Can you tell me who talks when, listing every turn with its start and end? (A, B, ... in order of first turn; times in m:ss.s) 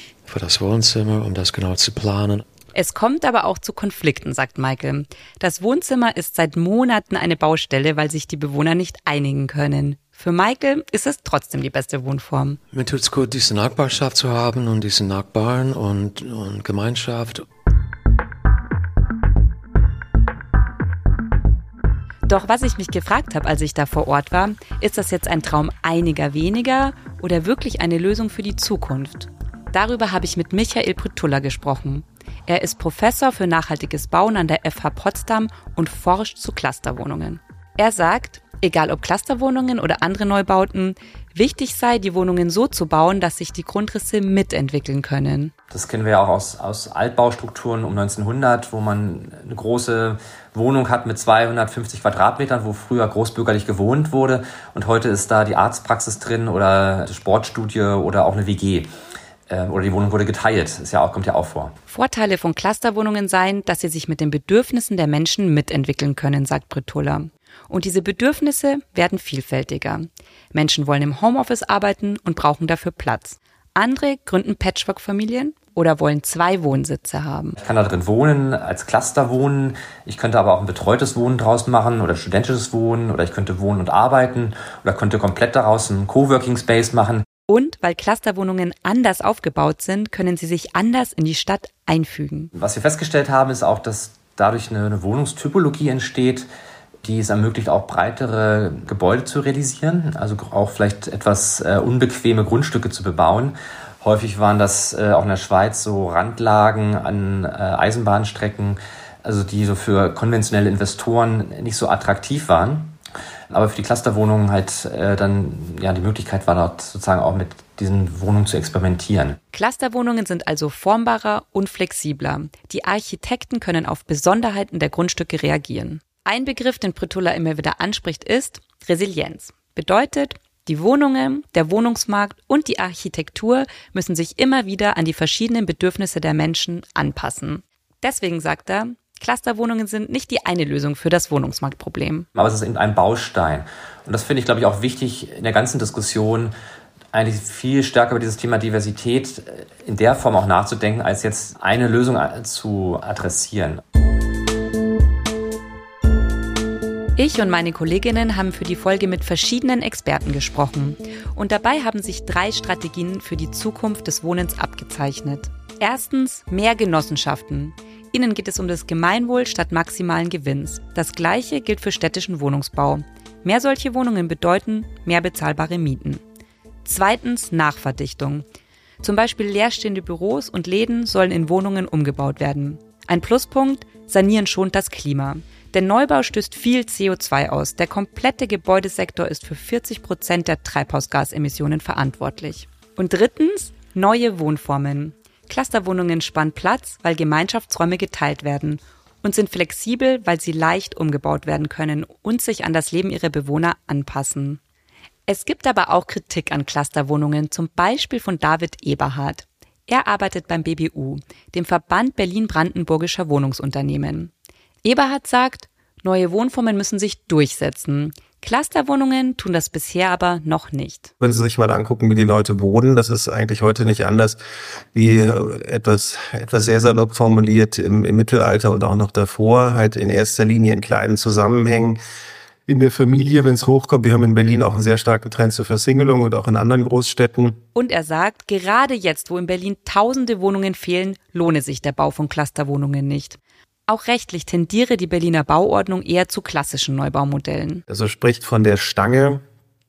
0:00.2-0:02.4 A
0:02.7-0:12.6 B
0:12.7-0:17.4 A
0:22.3-0:45.5 B
0:45.7-0:58.9 C
0:59.5-1:01.7 C
1:01.9-1:17.6 B
1:17.6-1:27.2 C
1:27.5-1:32.5 B
1:32.5-1:36.5 C
1:37.0-1:52.9 C
1:53.5-1:59.4 C
1:59.5-2:22.3 B
2:22.3-2:26.5 C
2:27.1-2:33.8 C
2:37.2-2:56.2 B
2:56.8-2:58.4 B
2:59.0-3:24.6 B
3:25.3-3:34.3 B
3:34.8-3:41.1 B
3:41.2-3:44.4 D
3:44.9-3:52.0 D
3:52.7-3:57.6 D
3:57.7-4:07.8 B
4:07.9-4:09.4 D